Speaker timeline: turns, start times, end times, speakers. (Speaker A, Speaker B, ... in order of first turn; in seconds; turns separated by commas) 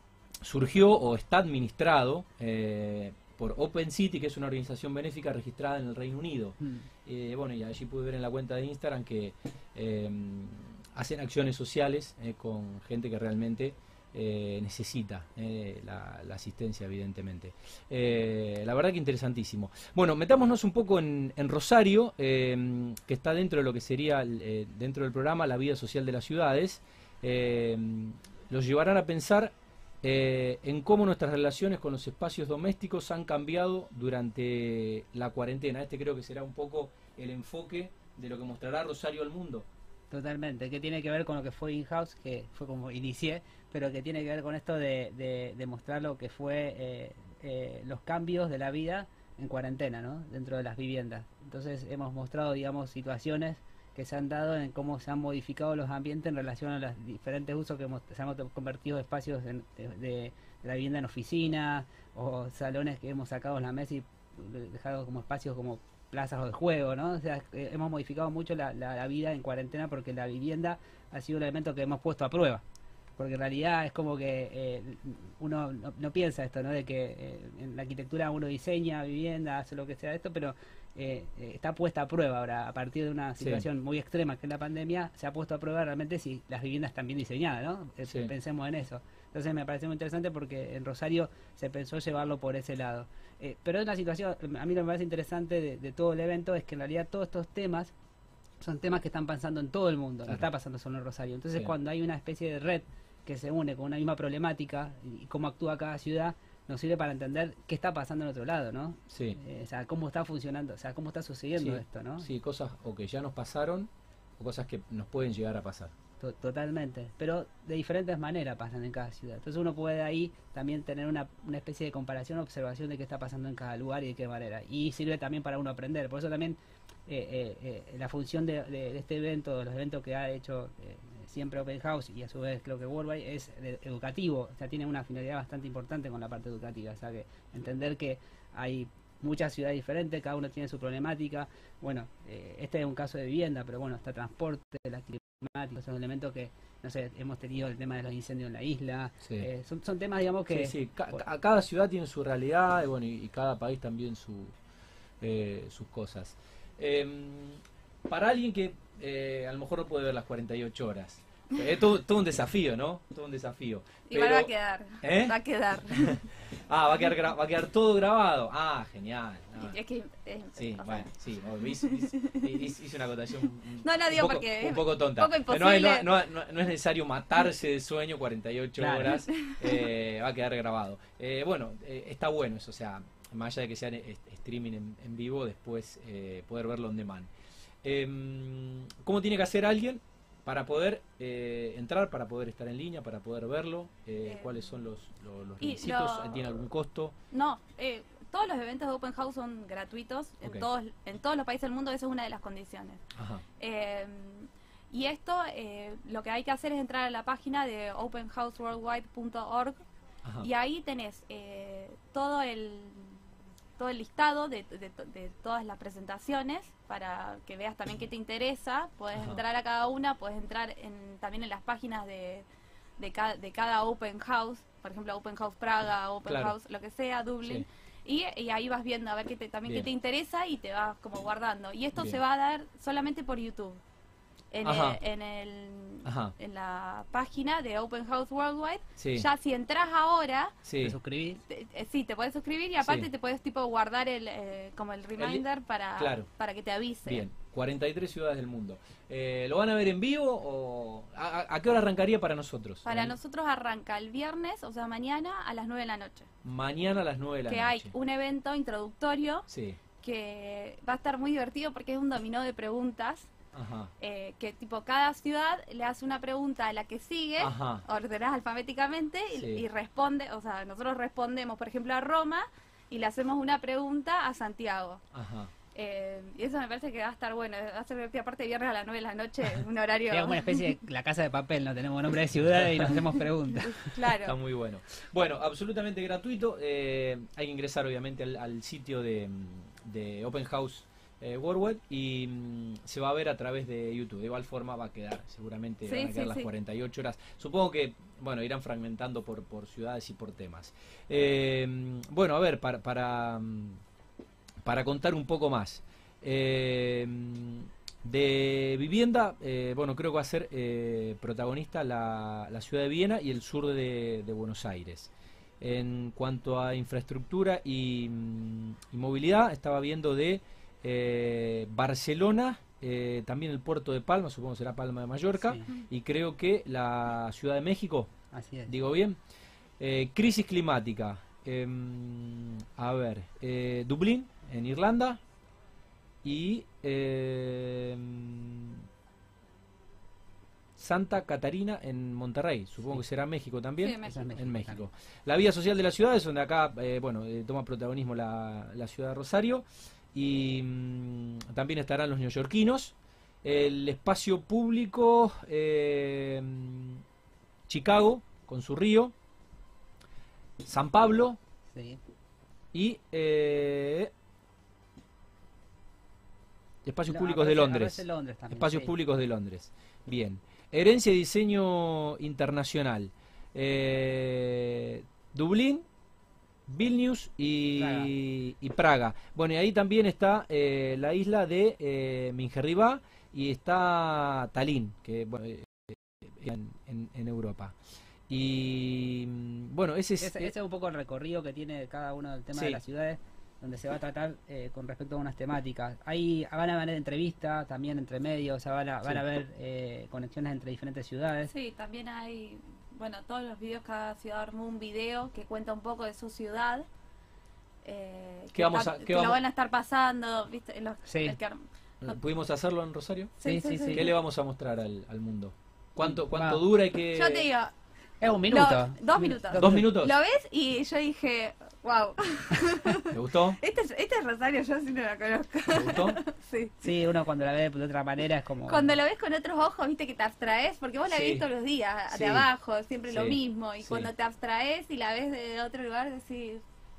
Speaker A: 0.4-39.7, Speaker B: 40.1-72.6, Speaker B: 73.2-97.9, Speaker A: 83.4-83.7, Speaker A: 88.0-88.3, Speaker B: 98.6-112.3, Speaker A: 109.1-109.4, Speaker A: 111.6-115.9, Speaker B: 116.2-151.2, Speaker A: 150.5-154.5, Speaker A: 155.2-165.4, Speaker C: 164.1-166.2, Speaker A: 165.9-169.7, Speaker C: 169.6-171.1, Speaker A: 170.6-187.3, Speaker C: 171.6-172.7, Speaker C: 173.8-176.1, Speaker B: 178.8-179.2, Speaker A: 187.8-197.1, Speaker C: 194.2-194.6, Speaker C: 195.6-196.6, Speaker C: 197.3-203.0, Speaker A: 203.1-203.4, Speaker C: 203.6-209.8, Speaker C: 210.4-213.2, Speaker C: 213.8-222.4, Speaker A: 219.1-219.4, Speaker C: 223.0-233.8, Speaker A: 226.2-226.5, Speaker C: 234.5-240.6, Speaker A: 234.6-235.0, Speaker A: 236.0-236.3, Speaker A: 239.0-239.3, Speaker A: 240.6-241.0, Speaker B: 240.8-241.4, Speaker C: 241.5-247.2, Speaker A: 242.8-243.1, Speaker A: 245.2-245.4, Speaker A: 245.9-246.3, Speaker A: 247.1-253.1, Speaker C: 252.8-256.3, Speaker A: 256.4-257.9, Speaker C: 257.5-259.5, Speaker A: 259.5-259.8, Speaker C: 260.0-263.3, Speaker A: 263.5-263.9, Speaker C: 264.0-275.0, Speaker A: 267.4-267.8, Speaker A: 269.3-269.6, Speaker A: 275.1-275.5, Speaker C: 275.7-280.7, Speaker B: 280.1-283.9, Speaker A: 282.6-282.9, Speaker C: 283.7-284.4, Speaker A: 284.2-303.8, Speaker C: 295.9-296.5, Speaker A: 304.6-328.1, Speaker B: 325.4-325.7, Speaker B: 328.3-328.7, Speaker A: 328.6-329.2, Speaker A: 329.8-335.2, Speaker A: 336.2-338.8, Speaker A: 340.8-357.0, Speaker C: 343.8-344.3, Speaker B: 344.0-344.9, Speaker A: 357.7-359.1, Speaker A: 360.6-361.4, Speaker B: 361.7-362.0, Speaker A: 362.7-364.1, Speaker A: 366.8-375.8, Speaker B: 367.1-368.9, Speaker A: 376.7-387.7, Speaker B: 377.8-378.1, Speaker A: 388.3-390.5, Speaker B: 390.2-401.5, Speaker A: 392.5-392.8, Speaker C: 401.5-406.9, Speaker C: 407.8-412.1, Speaker A: 408.5-409.4, Speaker B: 411.1-411.4, Speaker A: 412.0-413.3, Speaker C: 413.4-414.1, Speaker B: 413.4-414.1, Speaker A: 413.9-417.5, Speaker B: 416.0-416.6, Speaker C: 417.1-417.7, Speaker B: 418.2-419.8, Speaker C: 418.5-426.8, Speaker A: 419.6-420.1, Speaker A: 423.1-423.6, Speaker A: 425.7-426.2, Speaker B: 426.8-429.0, Speaker C: 428.7-436.6, Speaker A: 431.1-431.4, Speaker A: 432.1-432.4, Speaker A: 433.1-434.1